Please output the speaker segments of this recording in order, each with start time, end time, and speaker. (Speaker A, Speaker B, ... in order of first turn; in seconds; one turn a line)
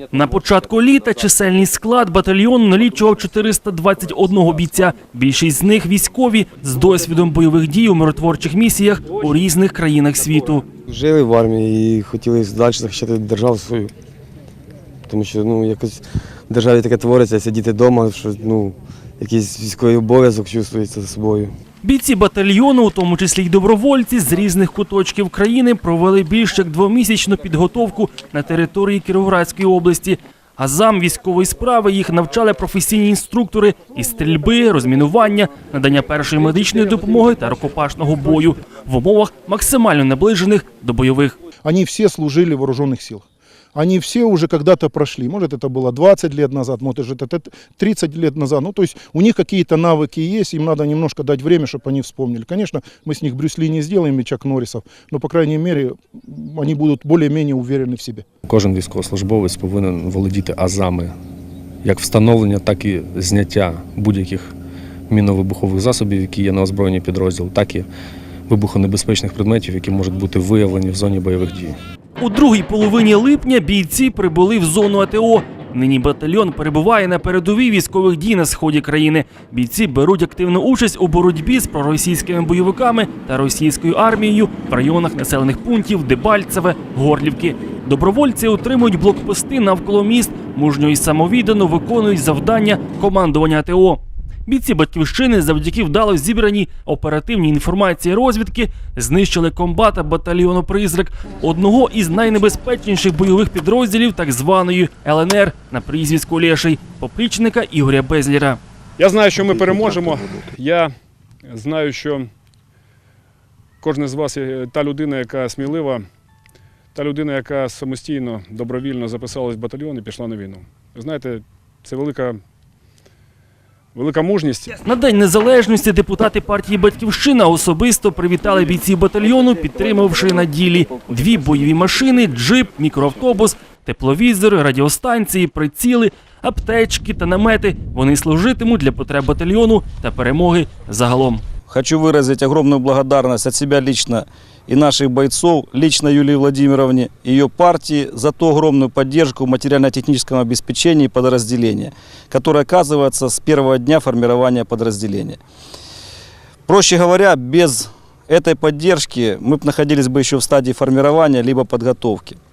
Speaker A: 0.1-10.6
Speaker B: 10.9-13.9
Speaker B: 15.1-21.6
Speaker A: 21.8-41.4
Speaker C: 41.6-43.2
Speaker C: 43.7-58.2
Speaker D: 58.5-61.1
Speaker D: 61.8-64.5
Speaker D: 65.1-67.9
Speaker D: 68.5-71.8
Speaker A: 72.2-108.6
Speaker E: 109.0-110.9
Speaker E: 111.5-112.3
Speaker E: 113.8-116.0
Speaker E: 116.9-122.4
Speaker E: 123.9-124.7
Speaker A: 124.8-141.4
Speaker F: 141.7-155.4
Speaker F: 156.7-162.4